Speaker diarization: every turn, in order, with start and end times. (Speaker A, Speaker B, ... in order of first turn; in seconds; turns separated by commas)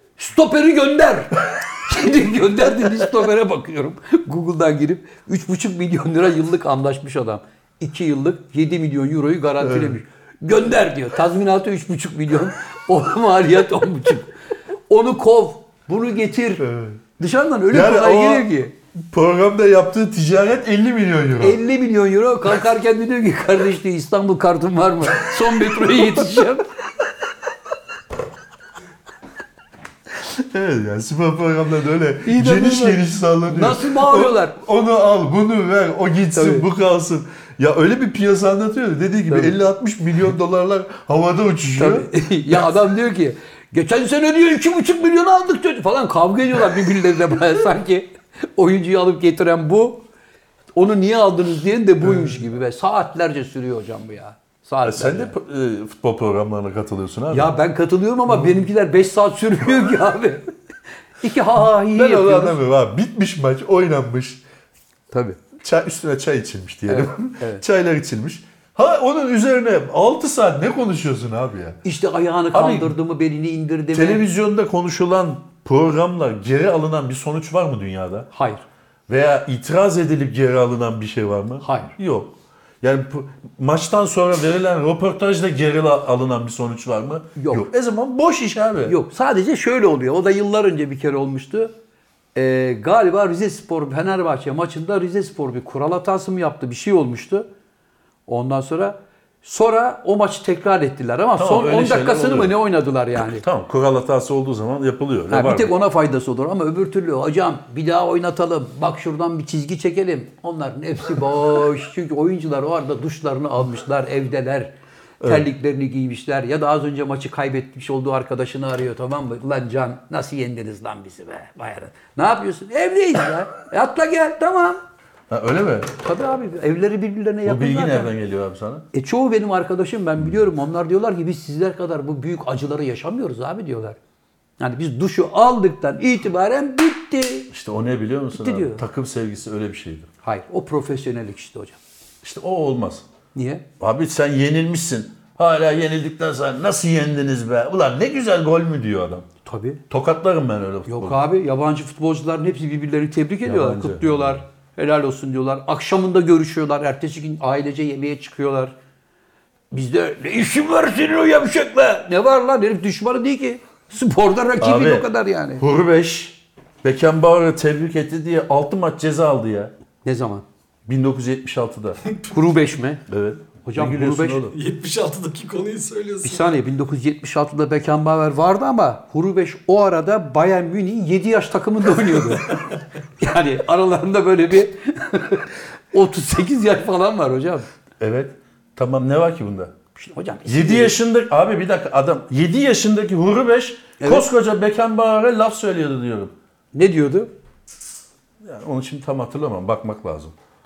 Speaker A: 0.2-14.3, Speaker B: 9.6-10.0, Speaker A: 14.9-16.6, Speaker B: 16.6-17.0, Speaker A: 17.2-18.7, Speaker B: 17.7-21.6, Speaker A: 21.4-26.6, Speaker B: 25.2-26.3, Speaker B: 30.1-42.6, Speaker A: 32.2-34.6, Speaker A: 36.3-36.6, Speaker A: 39.3-39.5, Speaker A: 41.7-50.0, Speaker A: 50.7-55.3, Speaker B: 52.0-52.4, Speaker B: 54.8-57.5, Speaker A: 57.3-60.5, Speaker A: 61.2-62.6, Speaker B: 61.9-64.4, Speaker A: 65.1-65.4, Speaker B: 65.6-71.8, Speaker A: 66.9-67.6, Speaker A: 71.8-74.3, Speaker B: 72.5-73.0, Speaker B: 73.9-78.3, Speaker A: 78.3-78.6, Speaker B: 79.1-89.0, Speaker A: 81.6-81.9, Speaker A: 87.4-87.7, Speaker A: 88.8-91.7, Speaker A: 92.3-97.5, Speaker A: 98.3-103.4, Speaker B: 101.4-102.6, Speaker B: 103.1-105.7, Speaker A: 105.3-124.8, Speaker B: 115.2-115.5, Speaker B: 125.3-125.9, Speaker A: 126.0-128.1, Speaker B: 127.4-128.8, Speaker A: 128.9-134.0, Speaker A: 134.6-137.5, Speaker B: 137.5-140.1, Speaker A: 138.4-138.8, Speaker A: 140.2-141.8, Speaker B: 142.2-143.0, Speaker A: 143.3-143.6, Speaker B: 143.8-149.3, Speaker A: 149.4-149.8, Speaker B: 149.9-151.2, Speaker A: 150.9-158.7, Speaker B: 153.4-154.4, Speaker A: 159.7-165.6, Speaker B: 164.6-169.7, Speaker A: 170.0-170.4, Speaker B: 170.9-172.0, Speaker A: 172.3-173.0, Speaker B: 173.1-174.6, Speaker A: 173.6-174.4, Speaker C: 174.5-176.5, Speaker A: 176.2-182.6, Speaker A: 183.2-187.7, Speaker B: 188.0-189.7, Speaker A: 189.9-190.9, Speaker B: 190.5-196.3, Speaker A: 194.0-194.3, Speaker A: 196.7-197.3, Speaker B: 198.4-200.3